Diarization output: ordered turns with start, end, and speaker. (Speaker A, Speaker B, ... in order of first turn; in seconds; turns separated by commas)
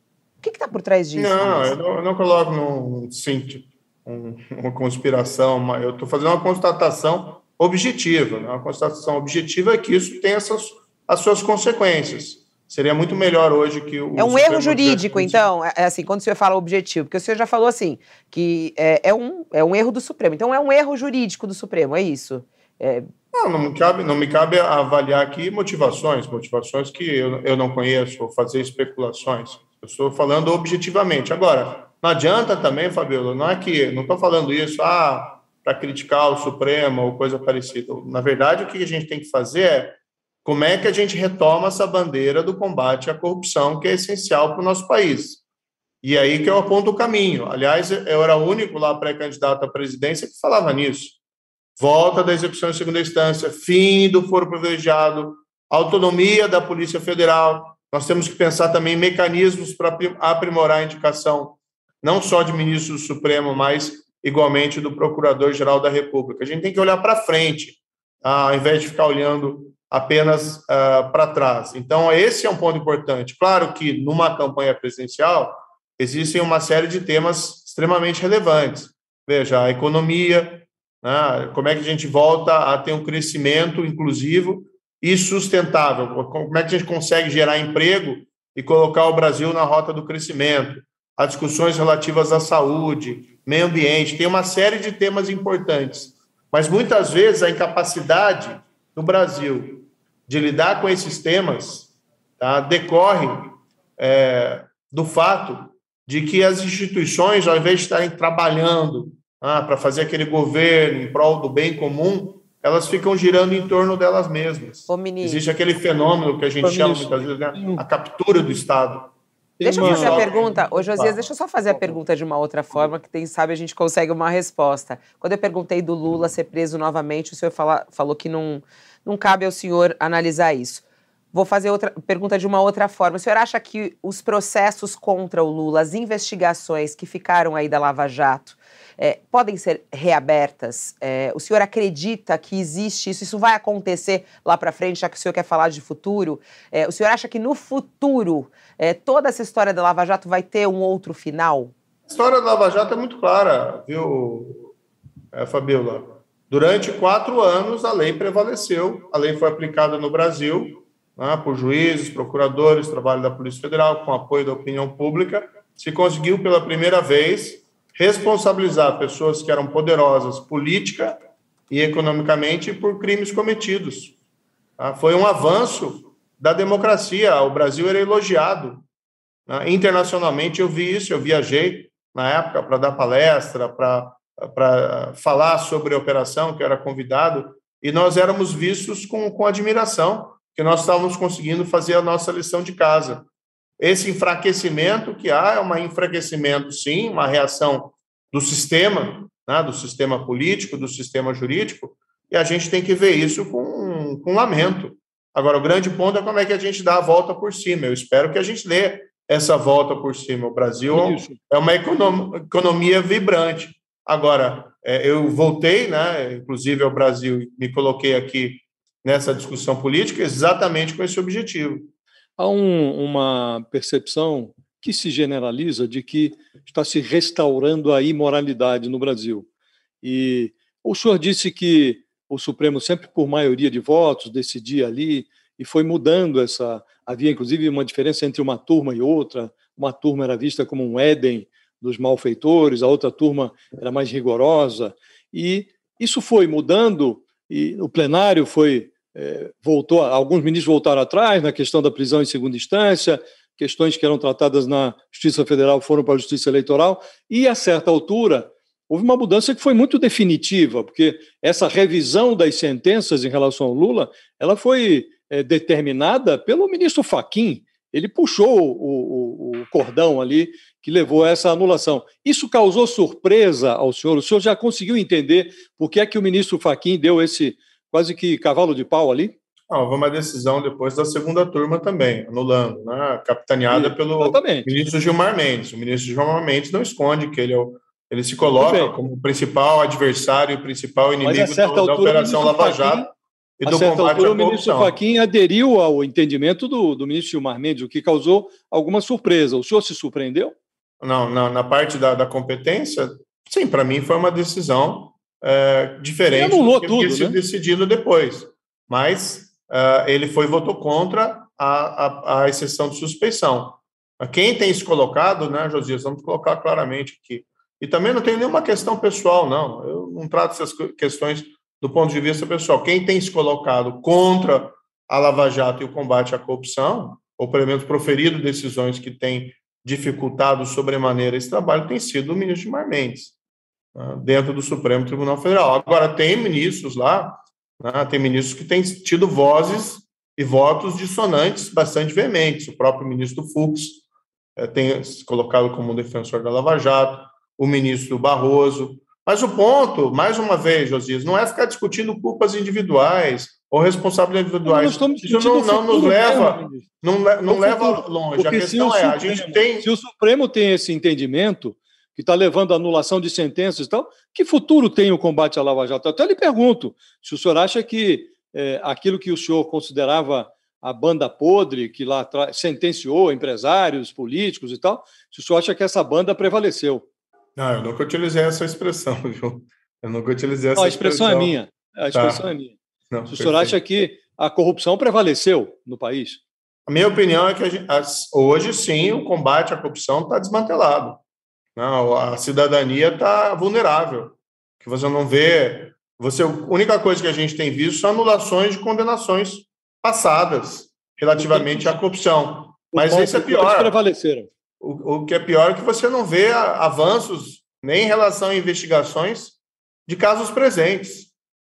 Speaker A: 0.4-1.8, Speaker B: 1.1-15.4, Speaker A: 14.2-23.1, Speaker B: 23.3-45.4, Speaker B: 46.0-51.2, Speaker B: 51.8-121.3, Speaker A: 114.9-115.4, Speaker C: 116.6-117.8, Speaker C: 119.6-120.3, Speaker A: 119.6-151.7, Speaker B: 152.1-154.7, Speaker B: 155.3-171.2, Speaker B: 171.7-174.1, Speaker B: 174.8-178.8, Speaker B: 179.5-193.2, Speaker B: 193.8-221.9, Speaker C: 210.9-211.4, Speaker C: 222.4-229.5, Speaker C: 230.0-279.3, Speaker B: 279.7-294.9, Speaker C: 283.7-284.7, Speaker C: 288.5-288.9, Speaker C: 291.2-293.1, Speaker C: 293.6-300.6, Speaker B: 301.0-333.3, Speaker C: 306.3-307.4, Speaker B: 333.9-344.0, Speaker B: 344.6-359.9, Speaker C: 354.6-356.8, Speaker C: 357.5-377.1, Speaker B: 377.6-381.6, Speaker C: 380.8-382.8, Speaker B: 382.1-382.4, Speaker B: 383.1-383.8, Speaker C: 383.3-386.4, Speaker B: 386.9-391.2, Speaker B: 391.8-403.9, Speaker C: 401.4-402.0, Speaker C: 402.9-404.5, Speaker B: 404.8-411.3